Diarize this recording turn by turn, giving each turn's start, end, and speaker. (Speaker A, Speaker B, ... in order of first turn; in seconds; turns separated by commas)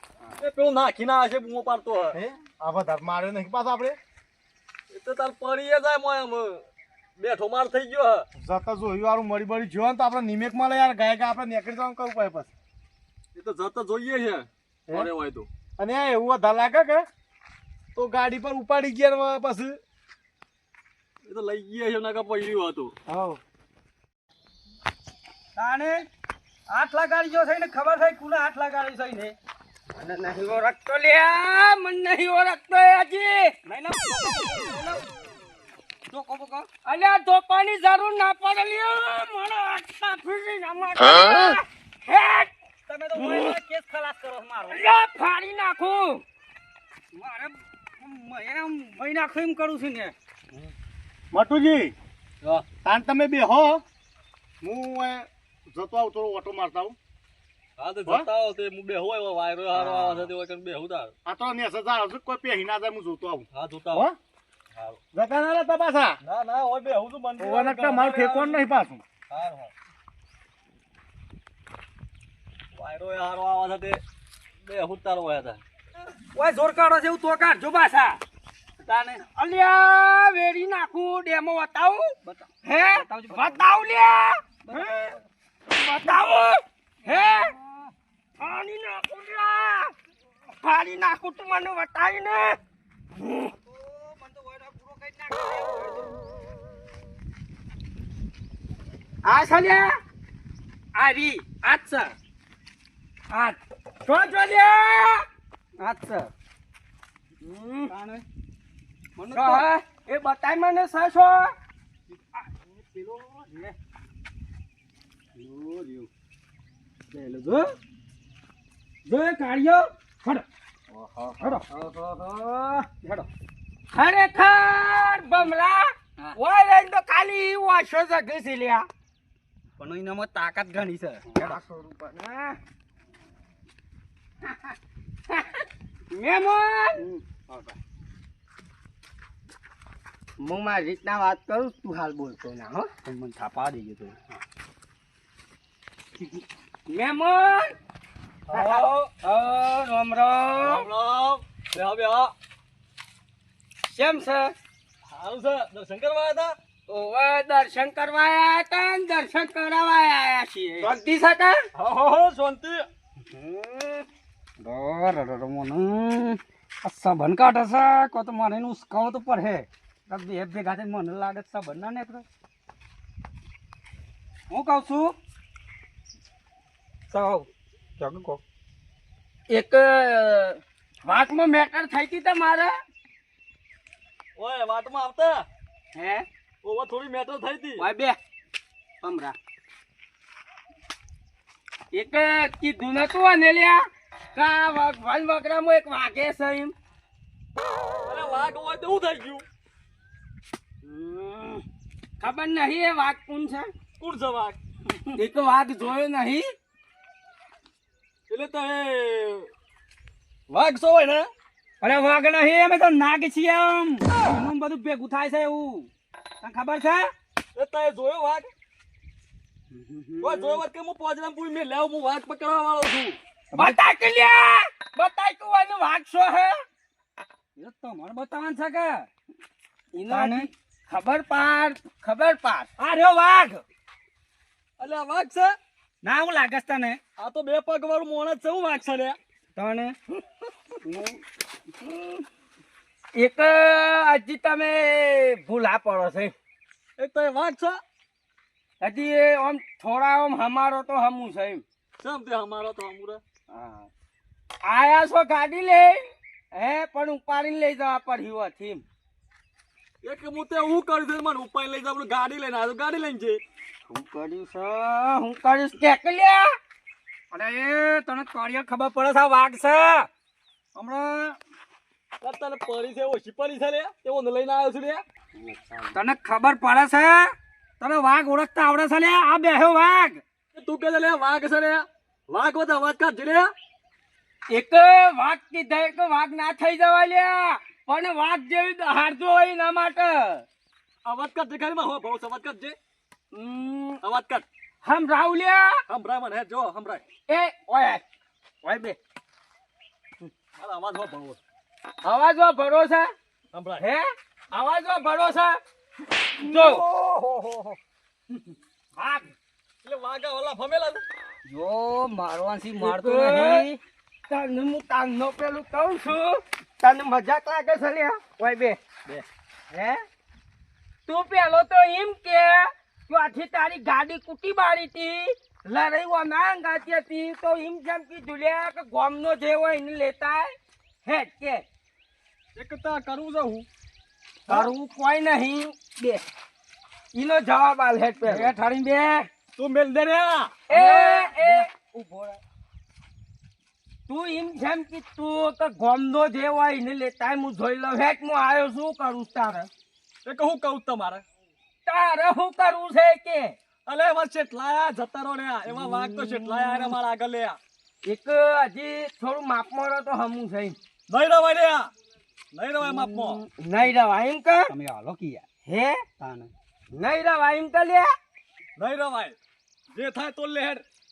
Speaker A: 0.4-2.2, Speaker B: 2.1-4.0, Speaker A: 4.9-6.7, Speaker A: 7.2-8.2, Speaker B: 8.4-12.5, Speaker A: 13.3-15.5, Speaker B: 15.8-17.1, Speaker B: 17.9-19.8, Speaker A: 21.2-22.9, Speaker C: 23.1-23.4, Speaker C: 25.6-26.1, Speaker C: 26.7-29.4, Speaker D: 30.0-33.6, Speaker C: 33.7-35.0, Speaker C: 36.1-36.7, Speaker D: 36.8-42.5, Speaker C: 42.9-44.8, Speaker D: 43.2-43.6, Speaker D: 44.7-46.2, Speaker C: 47.1-50.1, Speaker B: 51.3-51.9, Speaker B: 52.8-53.8, Speaker B: 54.6-57.0, Speaker A: 57.8-61.1, Speaker B: 61.3-64.2, Speaker A: 63.5-64.1, Speaker B: 65.1-66.2, Speaker A: 66.2-68.7, Speaker B: 67.4-69.0, Speaker A: 69.3-69.7, Speaker A: 72.7-74.0, Speaker A: 74.6-75.6, Speaker C: 76.4-77.5, Speaker D: 77.0-78.2, Speaker C: 78.8-79.2, Speaker D: 79.3-85.2, Speaker C: 82.2-83.9, Speaker C: 84.7-85.2, Speaker D: 85.7-87.5, Speaker C: 87.0-87.9, Speaker D: 88.4-89.9, Speaker D: 90.5-92.6, Speaker D: 93.2-93.5, Speaker C: 93.6-96.2, Speaker D: 99.2-99.9, Speaker D: 101.0-102.2, Speaker D: 103.3-105.2, Speaker C: 105.8-106.3, Speaker D: 107.4-107.9, Speaker C: 107.9-108.2, Speaker C: 109.2-109.7, Speaker D: 109.3-111.5, Speaker C: 112.1-113.8, Speaker C: 115.4-116.1, Speaker C: 117.1-117.7, Speaker D: 119.1-120.4, Speaker C: 120.9-121.7, Speaker D: 121.8-122.8, Speaker C: 122.9-123.3, Speaker D: 123.9-128.9, Speaker C: 129.8-131.6, Speaker D: 131.3-132.6, Speaker D: 135.3-137.0, Speaker C: 136.9-137.8, Speaker D: 140.4-142.9, Speaker C: 143.0-144.3, Speaker D: 146.9-147.7, Speaker A: 148.5-148.8, Speaker D: 148.5-150.8, Speaker A: 150.6-152.3, Speaker D: 153.8-154.6, Speaker A: 155.1-156.6, Speaker D: 156.9-161.7, Speaker A: 161.8-162.9, Speaker C: 163.3-164.1, Speaker C: 164.6-172.2, Speaker C: 174.5-175.1, Speaker C: 177.1-177.5, Speaker C: 178.0-178.4, Speaker D: 179.5-182.8, Speaker A: 184.4-185.5, Speaker D: 185.9-186.3, Speaker A: 186.6-187.9, Speaker D: 187.8-188.2, Speaker D: 189.0-189.3, Speaker D: 191.9-196.7, Speaker A: 198.1-199.5, Speaker D: 200.8-201.6, Speaker D: 202.2-203.7, Speaker A: 204.0-204.6, Speaker D: 205.1-206.5, Speaker A: 208.3-209.5, Speaker A: 210.5-211.3, Speaker C: 211.8-217.1, Speaker A: 217.6-218.5, Speaker C: 219.7-220.6, Speaker A: 220.2-223.2, Speaker C: 223.5-223.8, Speaker D: 223.6-226.6, Speaker C: 227.6-229.1, Speaker D: 229.9-233.6, Speaker C: 230.1-230.5, Speaker A: 234.8-235.6, Speaker C: 236.0-237.0, Speaker A: 237.2-239.2, Speaker C: 239.6-240.0, Speaker C: 240.8-241.2, Speaker D: 243.2-246.3, Speaker A: 247.0-247.8, Speaker D: 248.8-251.6, Speaker A: 252.0-253.2, Speaker D: 254.6-258.8, Speaker A: 260.0-263.4, Speaker C: 263.9-264.5, Speaker D: 264.5-266.6, Speaker C: 267.3-270.1, Speaker C: 270.8-271.4, Speaker A: 272.2-275.0, Speaker C: 275.4-277.3, Speaker C: 277.8-280.2, Speaker A: 280.5-283.5, Speaker D: 284.5-290.5, Speaker A: 291.1-292.8, Speaker D: 293.3-294.0, Speaker A: 294.0-294.5, Speaker D: 294.8-295.8, Speaker A: 295.9-297.0, Speaker D: 297.3-298.0, Speaker D: 298.6-299.0, Speaker A: 300.6-301.4, Speaker D: 302.0-303.1, Speaker A: 303.5-303.9, Speaker D: 303.8-305.6, Speaker D: 306.4-306.9, Speaker C: 306.6-307.8, Speaker D: 309.0-309.3, Speaker A: 309.8-311.1, Speaker C: 311.5-313.8, Speaker D: 312.8-313.7, Speaker D: 314.3-318.8, Speaker D: 319.7-320.0, Speaker D: 321.1-331.6, Speaker A: 332.6-333.7, Speaker D: 334.5-336.2, Speaker D: 337.1-339.3, Speaker C: 338.2-338.7, Speaker A: 339.6-341.7, Speaker D: 340.7-342.4, Speaker D: 344.1-349.7, Speaker A: 350.2-351.2, Speaker D: 351.9-353.6, Speaker A: 353.9-357.6, Speaker D: 358.1-360.8, Speaker A: 361.1-361.9, Speaker A: 362.5-363.4, Speaker D: 362.9-364.7, Speaker C: 364.7-365.5, Speaker D: 365.6-366.0, Speaker C: 366.2-366.5, Speaker D: 366.9-368.1, Speaker A: 368.8-369.4, Speaker A: 369.9-370.9